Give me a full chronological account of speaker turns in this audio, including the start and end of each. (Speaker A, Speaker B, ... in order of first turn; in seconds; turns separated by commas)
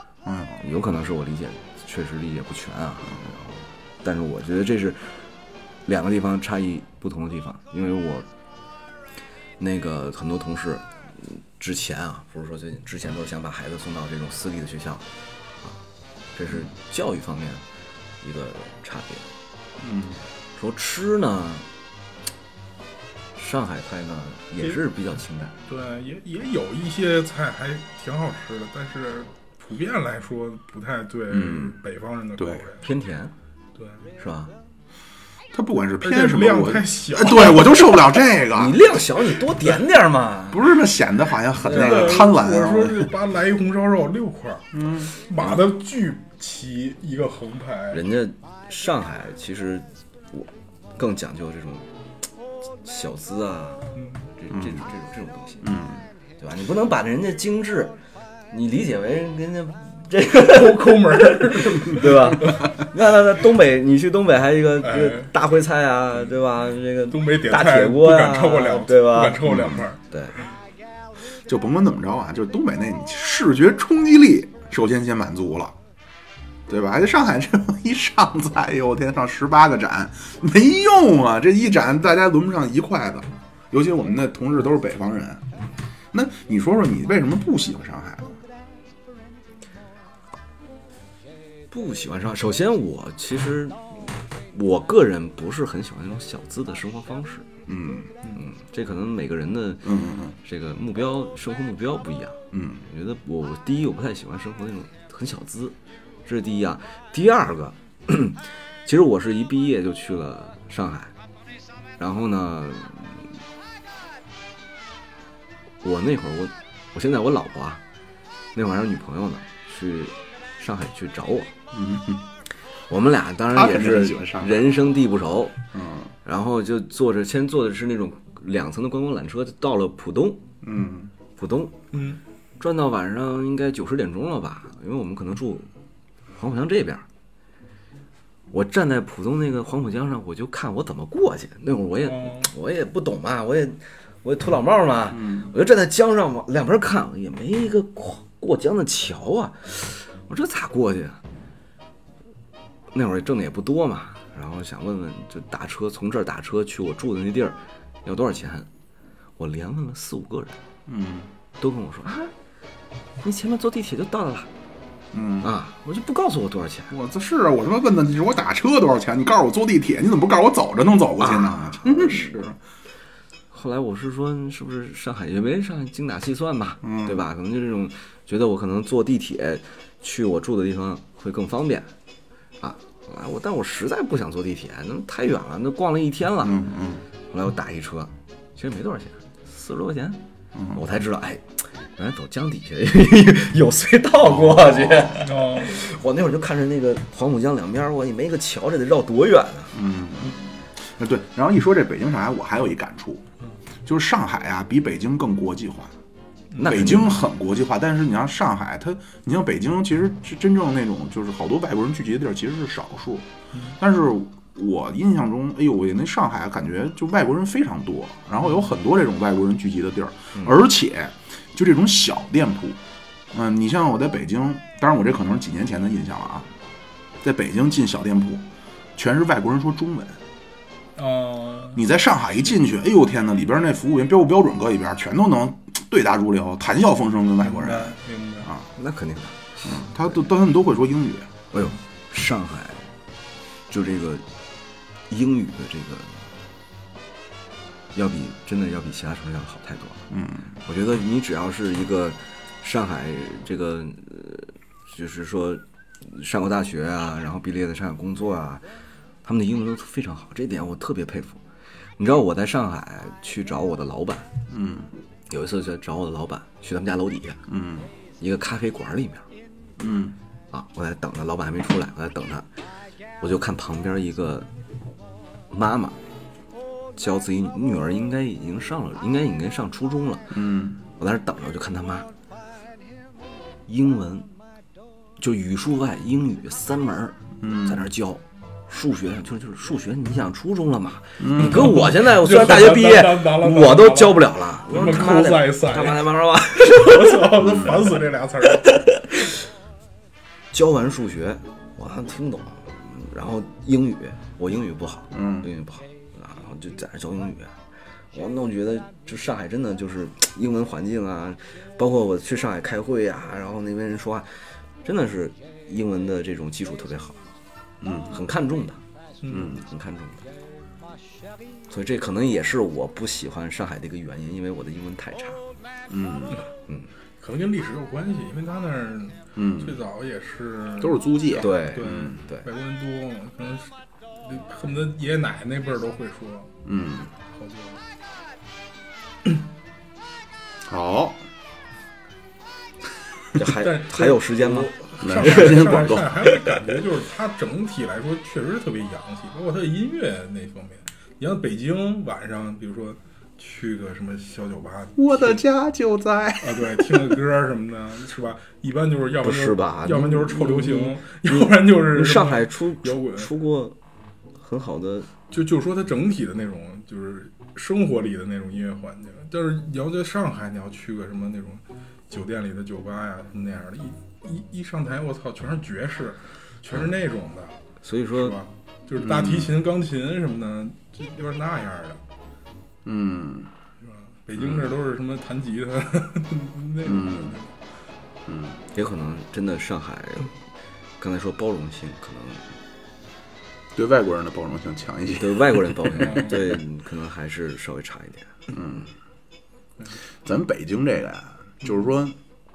Speaker A: 0.2-0.6, Speaker B: 0.6-5.3, Speaker B: 5.9-8.3, Speaker B: 9.6-15.1, Speaker B: 16.4-17.6, Speaker B: 18.2-19.3, Speaker A: 19.8-20.2, Speaker B: 20.6-21.7, Speaker B: 23.4-25.5, Speaker C: 25.7-32.9, Speaker A: 31.3-31.8, Speaker A: 32.4-32.6, Speaker B: 32.8-33.3, Speaker C: 33.8-34.1, Speaker B: 34.2-34.5, Speaker A: 35.5-38.8, Speaker C: 36.0-38.0, Speaker B: 38.5-40.7, Speaker A: 40.5-43.1, Speaker C: 41.6-48.0, Speaker B: 41.6-42.1, Speaker A: 44.7-45.1, Speaker B: 47.9-51.9, Speaker B: 52.8-55.7, Speaker C: 54.0-54.3, Speaker A: 54.5-54.9, Speaker A: 55.6-56.0, Speaker B: 56.4-58.0, Speaker B: 58.5-70.4, Speaker C: 60.4-62.7, Speaker C: 64.8-65.3, Speaker C: 67.1-70.0, Speaker A: 69.5-69.8, Speaker A: 71.5-75.8, Speaker A: 76.7-85.5, Speaker A: 86.1-88.4, Speaker B: 91.7-97.5, Speaker A: 97.7-98.1, Speaker B: 98.3-111.1, Speaker A: 99.8-100.4, Speaker A: 102.5-102.8, Speaker B: 112.0-113.3, Speaker B: 115.8-117.8, Speaker B: 118.5-121.5, Speaker A: 121.7-122.2, Speaker B: 122.9-125.6, Speaker A: 123.5-124.6, Speaker A: 125.7-126.1, Speaker B: 126.2-130.4, Speaker A: 130.6-131.1, Speaker B: 131.4-131.8, Speaker C: 131.9-132.2, Speaker B: 132.6-135.7, Speaker B: 136.3-137.1, Speaker B: 138.5-151.2, Speaker C: 142.0-142.5, Speaker A: 145.1-145.5, Speaker B: 152.9-158.7, Speaker B: 159.4-160.6, Speaker A: 160.9-161.3, Speaker B: 161.6-162.3, Speaker B: 163.2-164.5, Speaker A: 165.1-165.5, Speaker B: 165.4-166.9, Speaker A: 166.9-172.6, Speaker B: 171.2-172.4, Speaker B: 173.5-181.9, Speaker A: 176.8-177.2, Speaker B: 182.6-186.6, Speaker A: 186.4-187.0, Speaker B: 187.3-190.2, Speaker A: 190.6-190.8, Speaker B: 190.7-191.4, Speaker B: 191.9-199.7, Speaker A: 194.3-195.1, Speaker C: 195.2-195.8, Speaker A: 199.7-203.2, Speaker A: 203.9-205.9, Speaker C: 206.5-206.9, Speaker B: 206.6-207.1, Speaker A: 206.6-213.3, Speaker A: 213.8-222.8, Speaker A: 223.3-226.5, Speaker A: 227.2-228.4, Speaker A: 228.9-230.2, Speaker C: 230.9-231.8, Speaker A: 231.8-238.7, Speaker C: 237.4-238.5, Speaker B: 238.8-240.2, Speaker A: 239.6-241.3, Speaker B: 241.5-242.9, Speaker B: 243.7-244.2, Speaker B: 245.1-246.3, Speaker B: 247.9-250.1, Speaker A: 250.1-250.6, Speaker B: 250.6-258.6, Speaker B: 259.2-261.4, Speaker B: 262.0-264.3, Speaker A: 264.5-264.9, Speaker B: 265.3-267.4, Speaker A: 267.5-267.9, Speaker B: 268.2-269.3, Speaker A: 269.8-270.2, Speaker B: 270.5-272.5, Speaker B: 273.2-274.5, Speaker B: 275.5-276.0, Speaker B: 277.0-280.4, Speaker A: 280.3-280.8, Speaker B: 281.0-282.1, Speaker B: 283.7-284.3, Speaker B: 285.2-297.4, Speaker A: 287.4-287.8, Speaker A: 291.2-291.8, Speaker C: 291.5-298.8, Speaker A: 297.4-297.9, Speaker B: 298.6-299.2, Speaker B: 300.5-307.6, Speaker A: 305.1-305.5, Speaker B: 308.1-317.2, Speaker A: 317.8-318.1, Speaker B: 318.1-318.8, Speaker C: 319.2-319.5, Speaker A: 319.3-319.6, Speaker B: 319.6-320.2, Speaker B: 321.7-325.4, Speaker A: 325.9-326.4, Speaker C: 327.2-336.5, Speaker A: 329.4-329.8, Speaker A: 330.8-332.2, Speaker B: 331.4-332.5, Speaker A: 336.6-337.1, Speaker C: 337.3-337.8, Speaker A: 340.7-341.2, Speaker B: 343.4-345.8, Speaker C: 343.5-355.4, Speaker A: 345.0-346.6, Speaker A: 355.0-357.2, Speaker C: 356.4-363.3, Speaker B: 359.2-363.8, Speaker B: 364.4-365.1, Speaker C: 365.3-377.6, Speaker B: 377.8-378.4, Speaker C: 378.1-382.0, Speaker A: 379.0-379.6, Speaker A: 382.9-383.5, Speaker C: 383.8-387.5, Speaker A: 384.4-384.7, Speaker A: 386.8-387.4, Speaker A: 388.3-388.6, Speaker B: 388.7-390.4, Speaker B: 391.0-392.4, Speaker A: 393.8-396.2, Speaker B: 395.1-398.3, Speaker C: 396.0-396.4, Speaker A: 398.5-398.9, Speaker A: 400.2-402.2